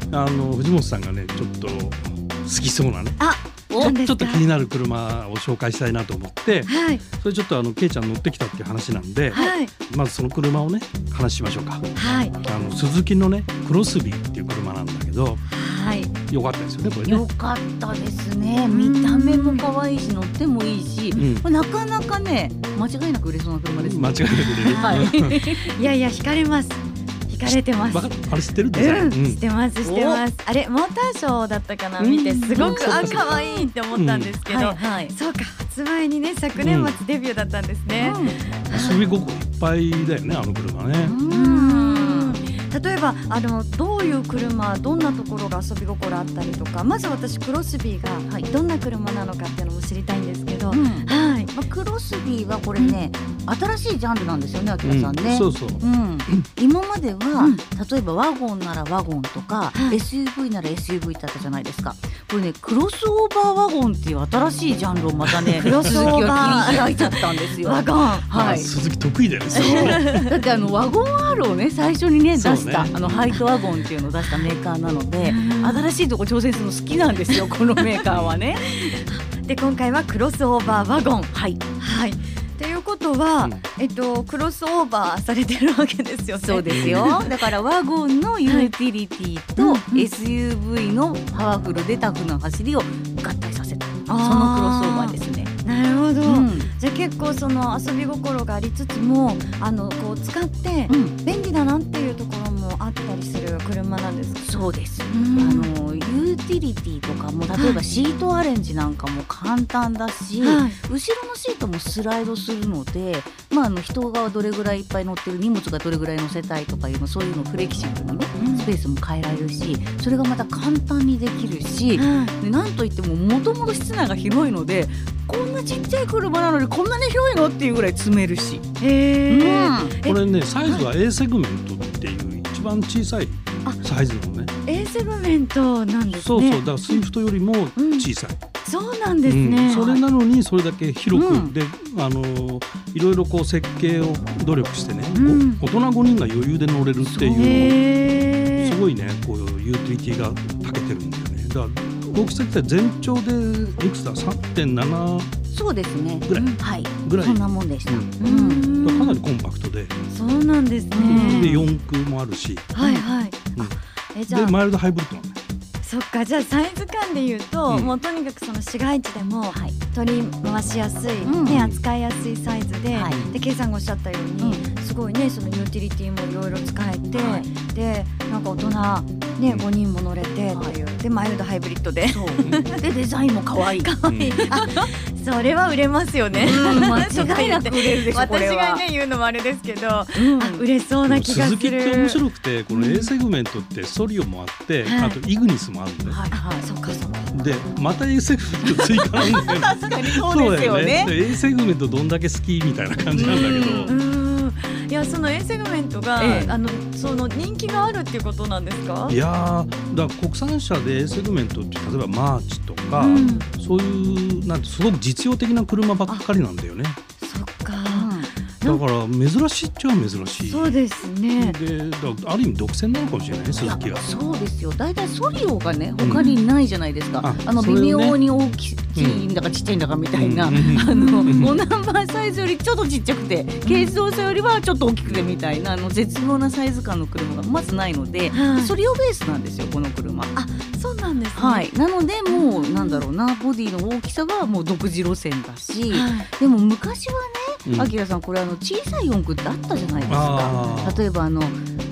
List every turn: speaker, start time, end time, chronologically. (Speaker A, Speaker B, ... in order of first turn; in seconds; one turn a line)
Speaker A: 0.1-11.8
Speaker B: 3.2-4.5
Speaker B: 6.7-7.0
Speaker B: 9.3-9.7
Speaker B: 12.0-12.4
Speaker A: 12.4-15.4
Speaker B: 15.5-16.1
Speaker A: 16.3-17.2
Speaker C: 17.1-25.6
Speaker B: 18.6-19.7
Speaker A: 21.1-21.5
Speaker A: 23.8-25.4
Speaker B: 24.6-28.2
Speaker A: 27.7-29.4
Speaker B: 28.7-39.1
Speaker C: 29.8-30.2
Speaker C: 32.0-33.7
Speaker A: 32.6-33.4
Speaker A: 33.9-34.4
Speaker C: 34.5-35.1
Speaker A: 36.6-37.0
Speaker C: 38.0-38.4
Speaker A: 38.7-41.1
Speaker C: 41.0-42.4
Speaker B: 41.3-51.5
Speaker C: 50.7-68.7
Speaker A: 54.8-56.5
Speaker B: 57.4-57.6
Speaker B: 59.7-60.0
Speaker A: 65.3-66.7
Speaker B: 65.6-68.3
Speaker A: 68.3-70.1
Speaker B: 69.5-70.3
Speaker C: 69.5-78.7
Speaker A: 72.3-73.3
Speaker B: 75.2-75.9
Speaker B: 77.3-78.0
Speaker A: 78.1-78.4
Speaker B: 78.6-87.4
Speaker C: 81.3-81.6
Speaker C: 86.4-95.5
Speaker A: 86.7-87.2
Speaker B: 88.5-88.7
Speaker B: 89.6-90.1
Speaker B: 94.1-104.5
Speaker C: 96.2-96.7
Speaker C: 100.9-101.2
Speaker C: 104.4-128.6
Speaker B: 105.1-105.7
Speaker B: 107.6-107.8
Speaker B: 110.4-110.8
Speaker B: 118.4-118.7
Speaker B: 122.0-122.3
Speaker B: 128.8-130.9
Speaker C: 129.3-129.9
Speaker A: 130.0-134.5
Speaker B: 134.7-137.0
Speaker A: 136.1-138.4
Speaker B: 137.8-138.1
Speaker B: 138.7-140.0
Speaker A: 139.2-147.8
Speaker C: 141.1-141.5
Speaker B: 145.2-145.6
Speaker C: 147.0-147.8
Speaker B: 147.4-148.8
Speaker A: 148.6-155.3
Speaker C: 155.5-158.7
Speaker A: 156.3-158.2
Speaker B: 156.3-156.6
Speaker B: 158.2-159.2
Speaker A: 158.8-159.9
Speaker B: 160.1-161.7
Speaker C: 160.9-161.7
Speaker A: 161.1-162.7
Speaker B: 162.7-164.6
Speaker C: 162.8-163.1
Speaker A: 164.3-165.4
Speaker B: 165.8-182.8
Speaker A: 167.7-168.0
Speaker C: 171.2-171.7
Speaker A: 171.5-171.8
Speaker C: 172.9-173.3
Speaker C: 177.1-177.5
Speaker C: 182.1-183.9
Speaker B: 183.6-193.1
Speaker A: 184.1-184.4
Speaker C: 184.5-184.8
Speaker A: 186.3-187.1
Speaker C: 186.4-188.8
Speaker C: 190.2-190.7
Speaker A: 191.1-196.2
Speaker B: 194.8-195.2
Speaker C: 196.0-196.7
Speaker B: 196.3-197.4
Speaker A: 197.3-203.9
Speaker C: 198.7-201.1
Speaker C: 203.1-204.0
Speaker B: 203.9-209.2
Speaker C: 206.2-206.6
Speaker A: 209.1-217.0
Speaker B: 213.0-213.5
Speaker C: 213.2-213.4
Speaker B: 217.2-218.8
Speaker C: 217.9-218.3
Speaker A: 218.6-220.8
Speaker B: 220.4-221.6
Speaker A: 221.4-224.1
Speaker C: 223.6-240.3
Speaker A: 226.0-226.2
Speaker B: 226.1-226.4
Speaker A: 227.2-228.2
Speaker A: 229.0-229.3
Speaker A: 230.2-231.6
Speaker B: 230.6-231.5
Speaker B: 233.7-233.9
Speaker A: 235.0-235.4
Speaker B: 238.3-238.8
Speaker B: 240.3-241.7
Speaker C: 241.3-251.6
Speaker B: 242.3-243.1
Speaker B: 245.9-246.3
Speaker A: 247.7-247.9
Speaker A: 250.1-251.1